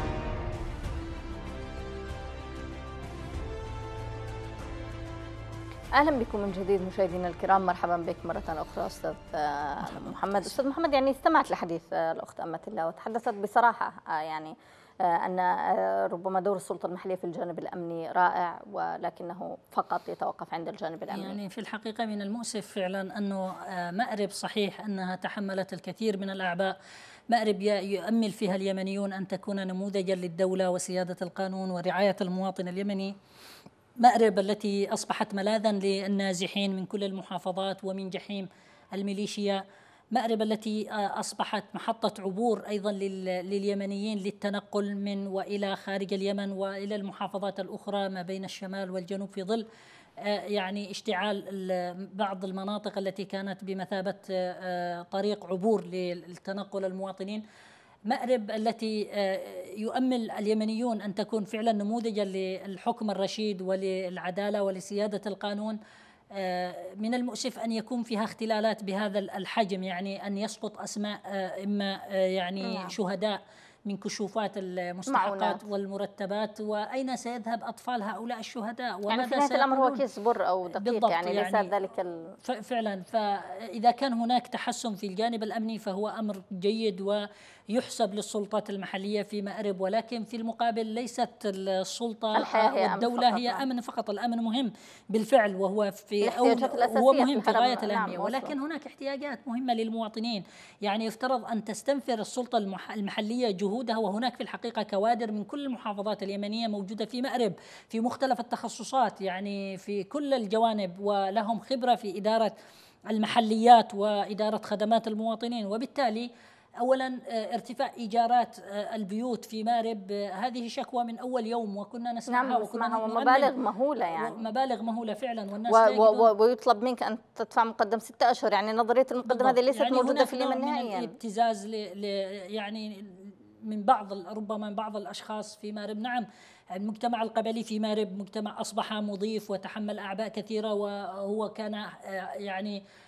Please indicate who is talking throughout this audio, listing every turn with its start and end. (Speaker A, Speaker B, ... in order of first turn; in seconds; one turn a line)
Speaker A: 6.0-21.4
Speaker B: 21.1-26.8
Speaker B: 27.3-33.1
Speaker B: 34.0-39.6
Speaker B: 40.1-49.6
Speaker B: 50.2-57.4
Speaker B: 58.1-65.8
Speaker B: 66.3-80.0
Speaker A: 72.6-72.9
Speaker A: 75.1-75.6
Speaker A: 79.1-82.3
Speaker B: 80.7-81.7
Speaker B: 82.4-87.2
Speaker B: 87.7-112.5
Speaker A: 92.3-93.7
Speaker A: 96.2-98.5
Speaker B: 113.1-116.3
Speaker B: 116.8-123.5
Speaker A: 122.3-124.4
Speaker B: 124.2-126.3
Speaker A: 125.7-131.1
Speaker B: 129.3-136.3
Speaker B: 136.8-142.8